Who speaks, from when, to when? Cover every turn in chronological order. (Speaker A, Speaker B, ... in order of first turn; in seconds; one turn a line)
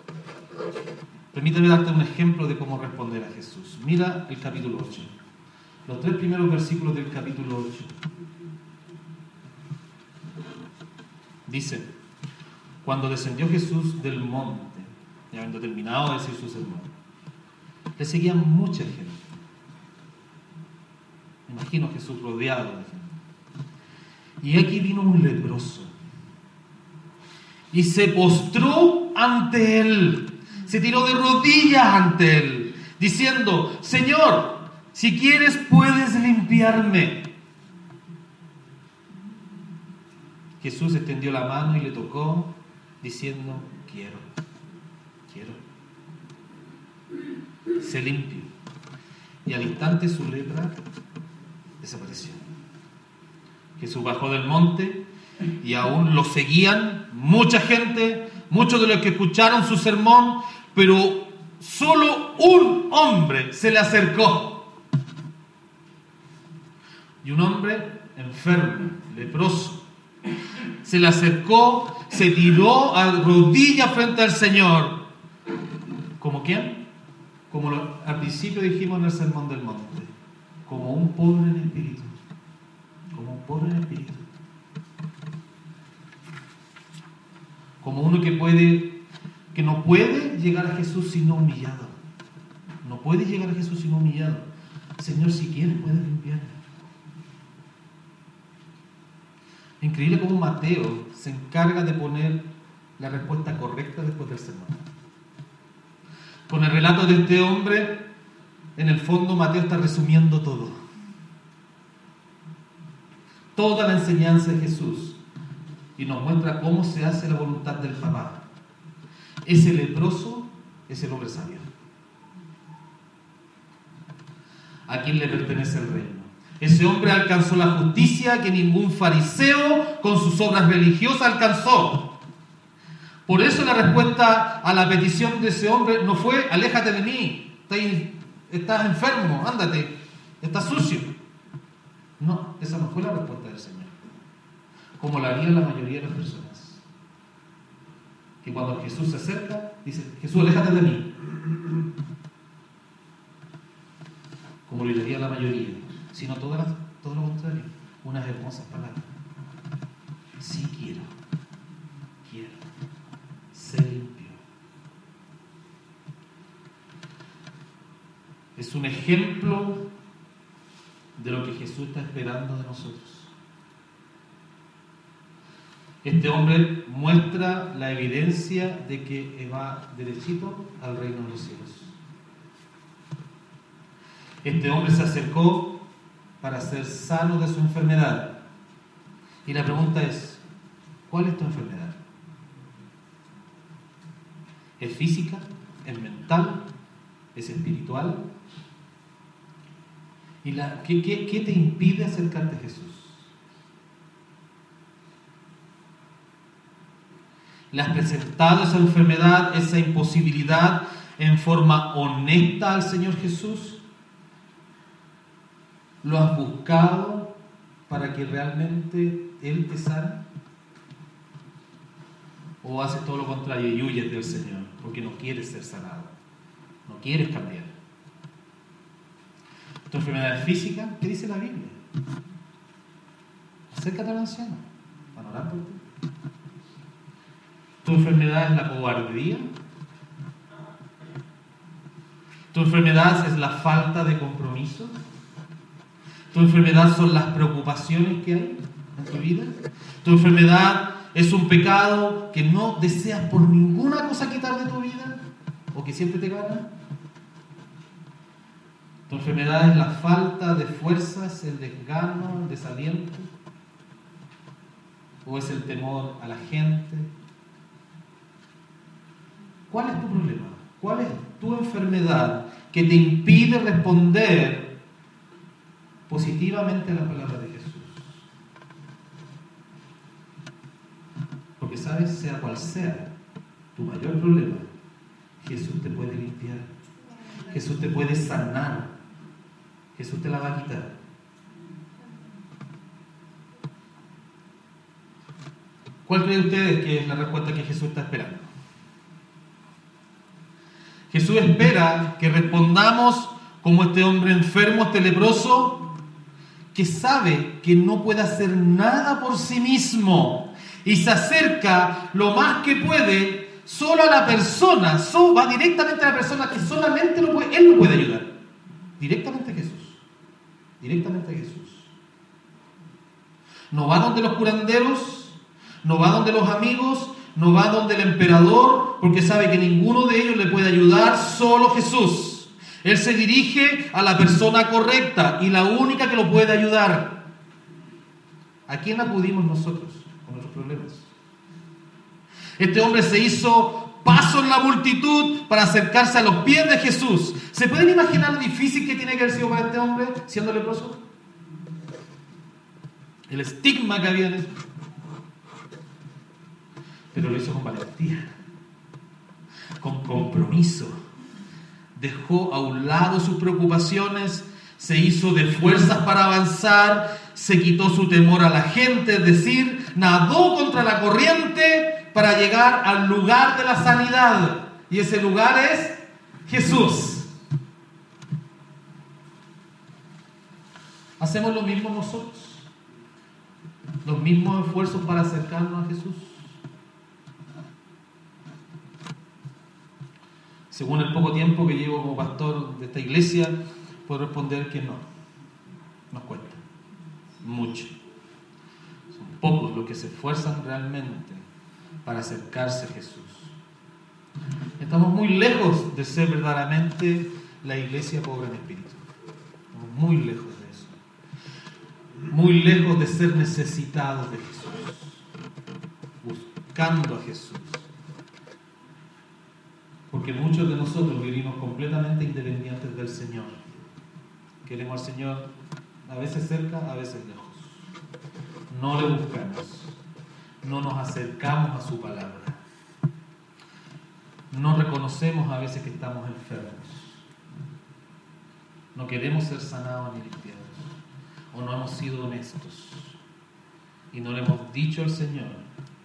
Speaker A: 1.3-5.1
Speaker A: 5.8-7.9
Speaker A: 11.4-11.9
Speaker A: 12.8-16.9
Speaker A: 18.0-19.4
Speaker A: 21.5-23.2
Speaker A: 24.4-25.9
Speaker A: 27.7-37.3
Speaker A: 40.6-44.3
Speaker A: 45.3-45.6
Speaker A: 47.8-48.5
Speaker A: 49.4-50.8
Speaker A: 51.8-52.4
Speaker A: 53.8-55.0
Speaker A: 55.6-64.7
Speaker A: 67.2-69.8
Speaker A: 70.8-75.0
Speaker A: 76.2-76.8
Speaker A: 77.5-80.1
Speaker A: 80.7-82.1
Speaker A: 83.1-84.3
Speaker A: 87.8-89.0
Speaker A: 89.5-91.9
Speaker A: 92.8-94.5
Speaker A: 95.0-96.6
Speaker A: 99.8-104.9
Speaker A: 106.5-108.1
Speaker A: 108.8-110.8
Speaker A: 113.5-115.2
Speaker A: 116.0-118.4
Speaker A: 119.4-121.7
Speaker A: 124.9-132.1
Speaker A: 133.2-141.1
Speaker A: 142.2-143.9
Speaker A: 145.0-146.8
Speaker A: 148.4-151.2
Speaker A: 154.7-159.1
Speaker A: 160.4-161.1
Speaker A: 162.2-162.6
Speaker A: 163.5-164.4
Speaker A: 168.6-169.9
Speaker A: 171.2-173.3
Speaker A: 176.0-181.9
Speaker A: 184.4-185.8
Speaker A: 186.4-188.4
Speaker A: 189.4-190.4
Speaker A: 191.1-192.0
Speaker A: 194.8-196.7
Speaker A: 197.3-198.3
Speaker A: 200.4-203.3
Speaker A: 207.7-213.8
Speaker A: 216.0-217.3
Speaker A: 217.9-220.2
Speaker A: 222.6-226.1
Speaker A: 226.8-227.7
Speaker A: 229.9-231.8
Speaker A: 233.7-234.6
Speaker A: 235.1-235.8
Speaker A: 237.8-239.5
Speaker A: 242.5-245.0
Speaker A: 246.3-256.7
Speaker A: 259.1-263.3
Speaker A: 265.2-267.1
Speaker A: 269.7-274.8
Speaker A: 276.1-278.2
Speaker A: 281.6-283.1
Speaker A: 283.7-284.7
Speaker A: 285.4-286.7
Speaker A: 287.4-288.9
Speaker A: 289.9-290.9
Speaker A: 296.1-298.5
Speaker A: 301.1-305.8
Speaker A: 306.7-318.3
Speaker A: 319.0-320.0
Speaker A: 320.8-321.9
Speaker A: 323.7-337.2
Speaker A: 338.7-341.1
Speaker A: 342.6-351.0
Speaker A: 353.3-354.5
Speaker A: 357.1-358.3
Speaker A: 359.8-360.9
Speaker A: 361.9-377.3
Speaker A: 381.2-382.7
Speaker A: 384.0-386.6
Speaker A: 390.7-395.0
Speaker A: 396.1-396.6
Speaker A: 397.4-397.9
Speaker A: 399.1-401.4
Speaker A: 402.0-403.5
Speaker A: 404.8-409.0
Speaker A: 409.7-411.0
Speaker A: 412.3-415.2
Speaker A: 416.2-417.9
Speaker A: 420.1-423.8
Speaker A: 424.6-425.5
Speaker A: 426.1-427.9
Speaker A: 428.7-430.0
Speaker A: 430.6-432.6
Speaker A: 434.5-437.2
Speaker A: 438.9-440.9
Speaker A: 441.5-443.2
Speaker A: 444.1-445.6